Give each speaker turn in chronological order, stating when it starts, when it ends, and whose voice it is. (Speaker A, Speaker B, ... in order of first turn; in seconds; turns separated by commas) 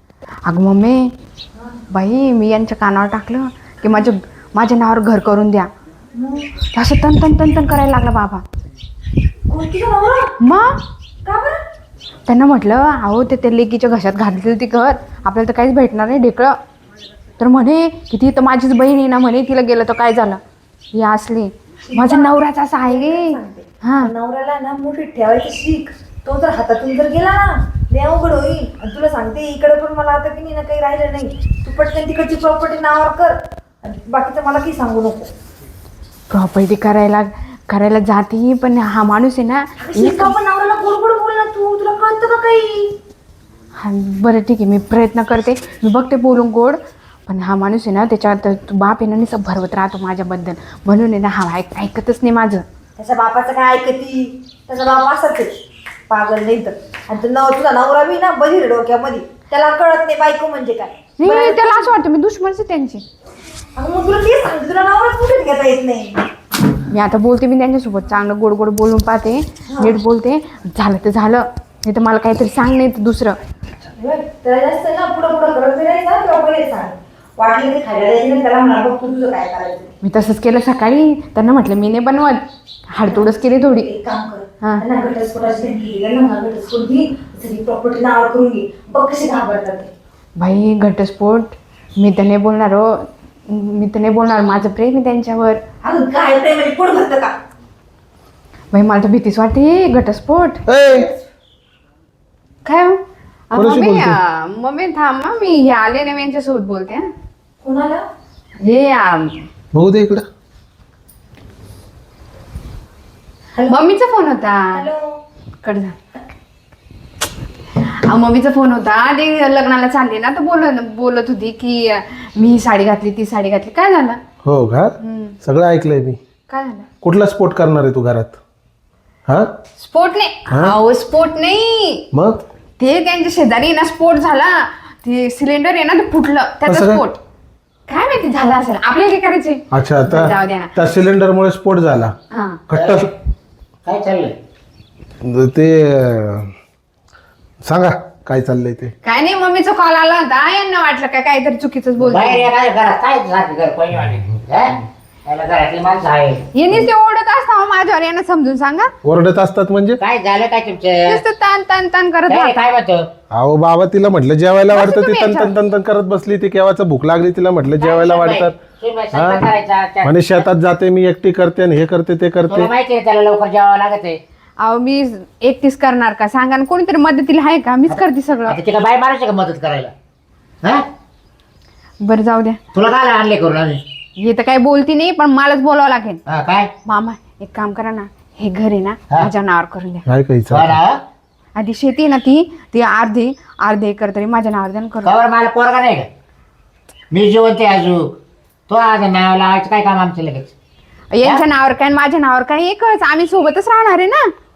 Speaker A: 0.5-1.1, Speaker A: 1.9-5.7, Speaker B: 6.2-6.5, Speaker A: 6.7-8.4, Speaker B: 9.5-10.3, Speaker A: 10.4-10.7, Speaker B: 11.2-11.6, Speaker A: 12.3-16.6, Speaker A: 17.4-20.4, Speaker A: 20.9-24.1, Speaker B: 21.9-35.3, Speaker A: 36.3-40.3, Speaker B: 39.8-42.9, Speaker A: 43.8-52.6, Speaker B: 53.0-55.5, Speaker B: 56.1-61.6, Speaker A: 61.2-63.0, Speaker B: 63.8-66.2, Speaker A: 66.9-73.4, Speaker B: 74.0-79.9, Speaker A: 80.0-83.9, Speaker B: 83.1-89.9, Speaker A: 90.4-95.6, Speaker B: 95.8-97.3, Speaker A: 98.7-100.6, Speaker C: 100.7-101.1, Speaker A: 102.6-107.1, Speaker C: 103.5-104.2, Speaker B: 107.6-108.0, Speaker A: 108.6-109.4, Speaker C: 109.7-110.2, Speaker A: 113.7-114.8, Speaker B: 114.7-115.1, Speaker A: 115.6-116.0, Speaker A: 117.8-124.2, Speaker C: 124.4-126.2, Speaker A: 125.0-125.3, Speaker A: 126.5-126.9, Speaker C: 127.0-128.4, Speaker A: 129.8-132.1, Speaker C: 132.1-132.4, Speaker A: 132.8-137.2, Speaker C: 136.7-137.0, Speaker A: 137.9-140.7, Speaker C: 139.7-142.1, Speaker A: 142.3-142.6, Speaker C: 142.7-143.1, Speaker D: 142.7-143.1, Speaker D: 143.8-144.3, Speaker C: 145.2-146.5, Speaker C: 147.6-148.9, Speaker A: 149.0-152.4, Speaker D: 152.0-156.5, Speaker A: 156.5-158.9, Speaker C: 159.0-160.0, Speaker D: 160.0-161.2, Speaker A: 161.1-162.6, Speaker D: 162.3-163.1, Speaker C: 163.3-168.6, Speaker A: 164.7-165.5, Speaker D: 167.8-170.4, Speaker C: 169.1-169.5, Speaker C: 170.0-172.7, Speaker D: 172.4-174.2, Speaker A: 174.6-178.6, Speaker D: 177.9-179.9, Speaker A: 182.0-182.6, Speaker D: 182.7-183.8, Speaker A: 184.2-186.2, Speaker D: 186.2-186.7, Speaker A: 186.8-190.1, Speaker C: 190.1-190.8, Speaker D: 190.5-191.0, Speaker A: 191.6-195.2, Speaker D: 195.0-196.1, Speaker D: 197.1-200.5, Speaker A: 201.1-204.3